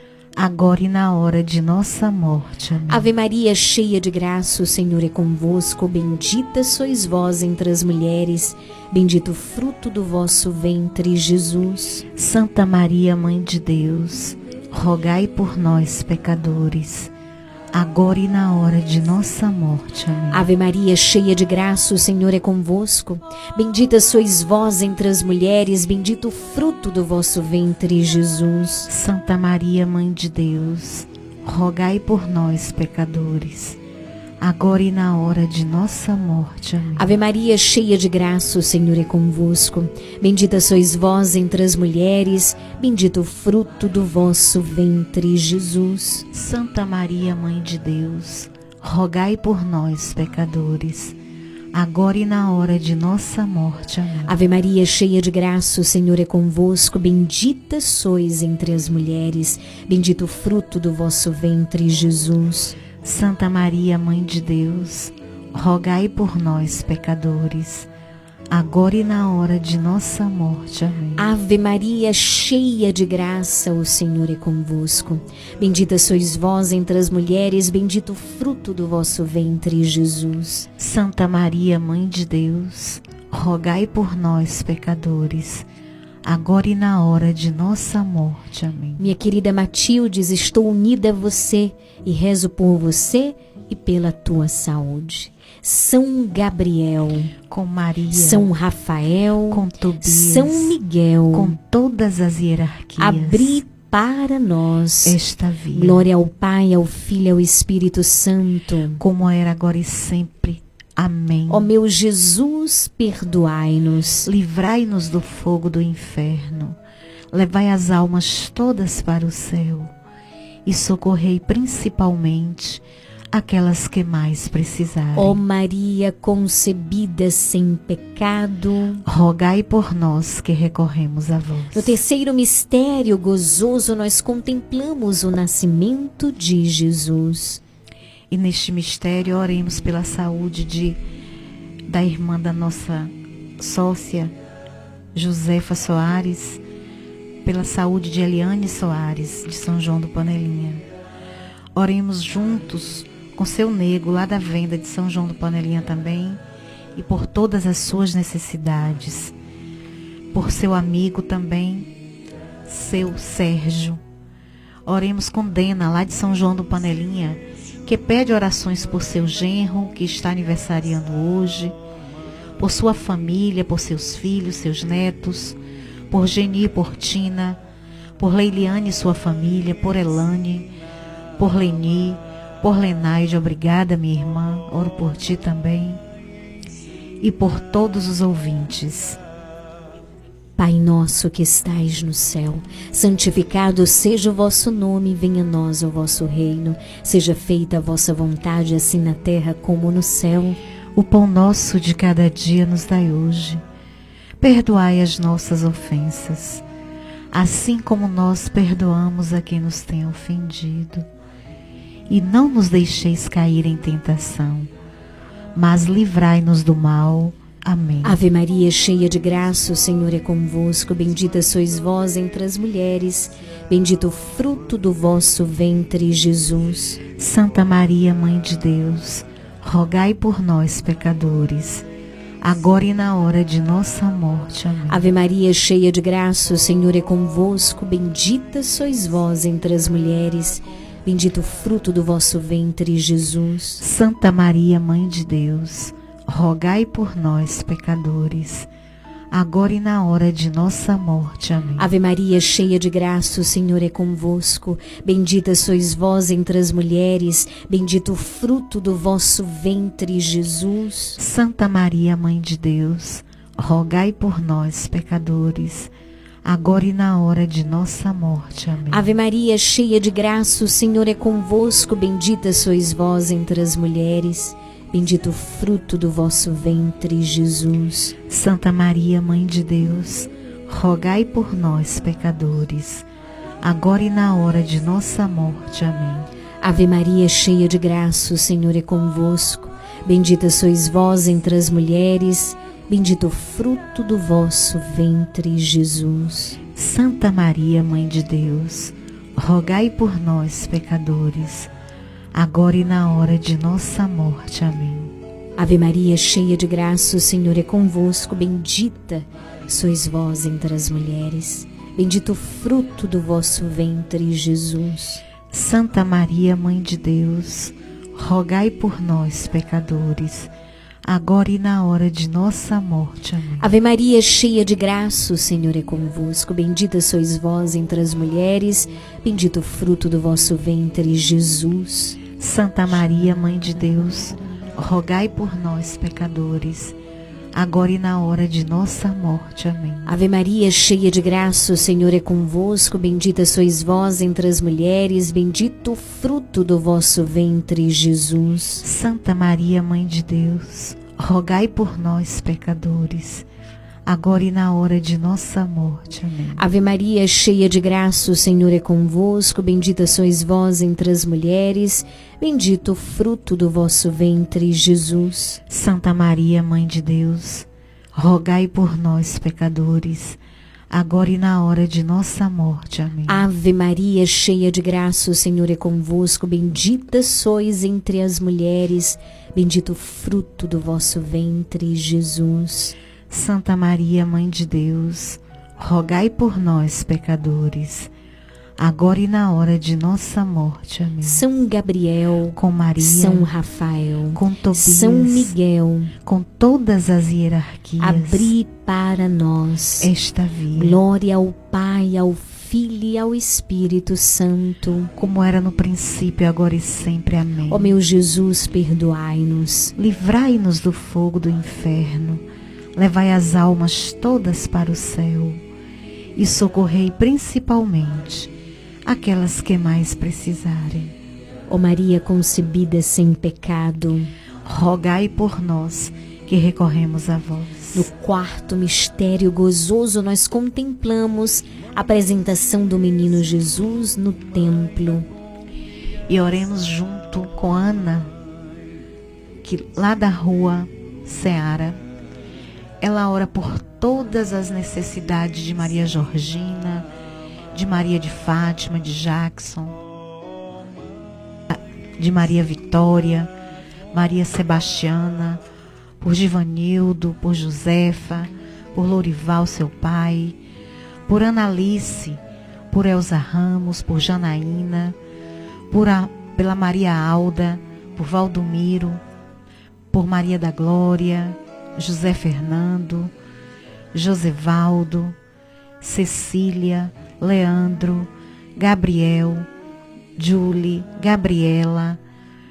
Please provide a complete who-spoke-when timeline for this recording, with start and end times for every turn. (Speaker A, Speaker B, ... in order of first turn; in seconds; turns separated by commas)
Speaker A: 0.4-3.1, Speaker B: 2.9-12.0, Speaker A: 12.2-17.1, Speaker A: 17.7-20.5, Speaker B: 20.3-28.9, Speaker A: 28.9-33.8, Speaker A: 34.4-37.1, Speaker B: 37.0-46.2, Speaker A: 46.3-51.1, Speaker A: 51.7-54.3, Speaker B: 54.3-62.8, Speaker A: 63.0-67.9, Speaker A: 68.5-71.3, Speaker B: 71.2-80.7, Speaker A: 80.8-85.7, Speaker A: 86.2-89.1, Speaker B: 89.0-97.3, Speaker A: 97.5-98.5, Speaker B: 98.1-101.5, Speaker A: 99.5-100.8, Speaker A: 101.3-103.6, Speaker B: 103.0-105.2, Speaker A: 105.0-106.0, Speaker B: 105.7-109.0, Speaker A: 109.0-111.7, Speaker B: 111.5-114.3, Speaker A: 114.2-116.8, Speaker A: 117.3-119.9, Speaker A: 120.7-122.8, Speaker A: 123.3-125.4, Speaker B: 125.2-129.0, Speaker A: 129.1-131.9, Speaker B: 131.7-137.6, Speaker A: 138.3-141.0, Speaker A: 141.9-144.3, Speaker A: 145.1-146.6, Speaker A: 147.4-150.8, Speaker A: 151.7-156.4, Speaker A: 156.9-159.3, Speaker A: 160.3-161.9, Speaker A: 162.7-164.0, Speaker A: 164.8-171.8, Speaker A: 172.6-175.6, Speaker A: 176.1-177.6, Speaker A: 178.2-180.7, Speaker A: 181.4-186.0, Speaker A: 187.2-189.2, Speaker B: 190.6-200.6, Speaker A: 200.9-203.6, Speaker A: 204.4-206.6, Speaker A: 207.3-211.1, Speaker A: 212.1-214.7, Speaker A: 215.5-218.2, Speaker B: 218.0-227.0, Speaker A: 227.2-231.8, Speaker A: 232.4-235.1, Speaker B: 234.9-243.8, Speaker A: 243.8-248.7, Speaker A: 249.3-251.9, Speaker B: 251.8-261.2, Speaker A: 261.2-265.9, Speaker A: 266.4-269.1, Speaker B: 268.9-278.1, Speaker A: 278.3-283.1, Speaker A: 283.6-286.3, Speaker B: 286.6-296.6, Speaker A: 296.7-301.7, Speaker A: 302.3-305.1, Speaker B: 305.6-315.2, Speaker A: 315.5-320.5, Speaker A: 321.0-323.7, Speaker B: 323.6-332.2, Speaker A: 332.4-336.9, Speaker A: 337.5-340.1, Speaker B: 340.1-348.8, Speaker A: 348.8-353.4, Speaker A: 354.1-356.7, Speaker B: 356.6-365.6, Speaker A: 365.7-370.4, Speaker A: 370.9-373.5, Speaker B: 373.3-382.9, Speaker A: 383.3-388.1, Speaker A: 388.8-391.4, Speaker B: 391.2-396.1, Speaker A: 392.6-393.5, Speaker A: 394.3-395.5, Speaker A: 396.2-398.5, Speaker B: 398.0-400.1, Speaker A: 400.0-401.0, Speaker B: 400.8-405.1, Speaker A: 405.2-407.9, Speaker B: 407.7-409.9, Speaker A: 410.0-412.4, Speaker A: 412.9-415.6, Speaker A: 416.4-418.5, Speaker A: 419.0-421.1, Speaker B: 421.7-424.3, Speaker A: 424.6-428.1, Speaker B: 427.9-435.2, Speaker A: 436.3-438.3, Speaker A: 439.6-442.0, Speaker A: 443.0-447.1, Speaker A: 447.7-450.0, Speaker A: 451.7-453.5, Speaker A: 454.1-455.6, Speaker A: 456.2-460.6, Speaker A: 461.3-462.4, Speaker A: 462.9-465.1, Speaker A: 465.9-469.2, Speaker A: 470.1-473.3, Speaker A: 474.1-475.4, Speaker A: 476.0-479.7, Speaker A: 480.4-482.2